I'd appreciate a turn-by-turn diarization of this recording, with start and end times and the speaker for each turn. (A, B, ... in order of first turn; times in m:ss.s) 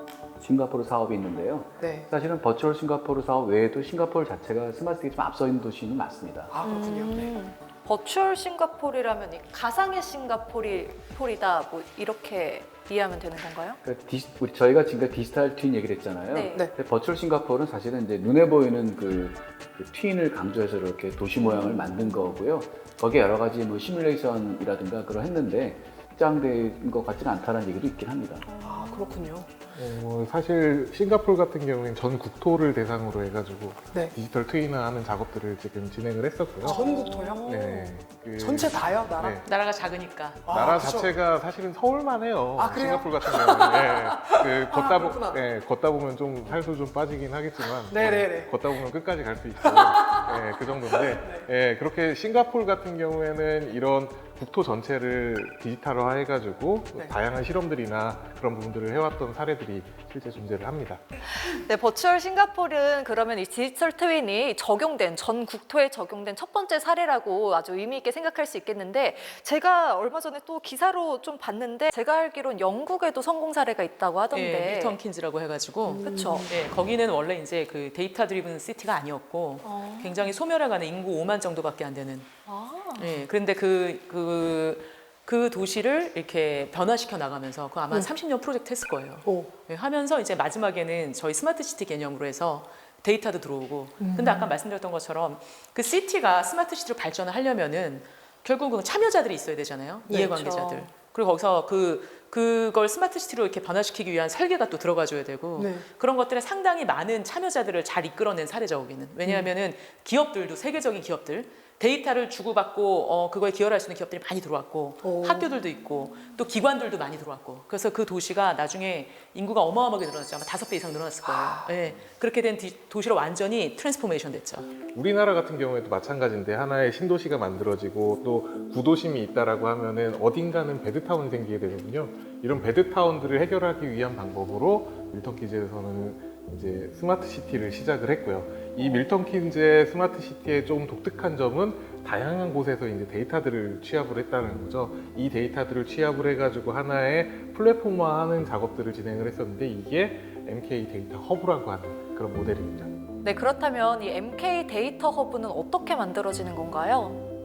0:00.4-0:06.5 A
0:01.8-0:02.1 B
0:06.5-0:07.3 B
0:06.6-0:13.8 C
0:13.8-0:28.5 A
0:16.3-0:16.6 C
0:21.6-0:22.0 B
0:28.5-0:29.1 C
0:28.6-0:29.6 B
0:29.7-0:36.8 D
0:36.6-0:37.5 B
0:36.7-0:37.9 C
0:37.4-0:39.4 D
0:38.3-0:39.4 B
0:39.4-0:40.4 E
0:40.5-0:41.2 B
0:40.5-1:01.0 D
0:42.6-0:45.4 B
0:47.8-0:48.8 B
0:49.6-0:51.5 B
1:01.2-1:15.0 C
1:14.3-1:22.3 E
1:15.9-1:16.5 B
1:16.0-1:16.5 C
1:19.8-1:20.1 C
1:22.5-1:23.2 C
1:23.0-2:04.7 E
1:29.2-1:29.5 B
1:34.0-1:34.5 B
1:40.1-1:40.4 B
1:40.4-1:40.9 C
1:45.6-1:45.9 B
1:55.0-1:55.5 B
2:01.3-2:01.7 B
2:04.9-2:32.9 D
2:33.2-2:37.2 C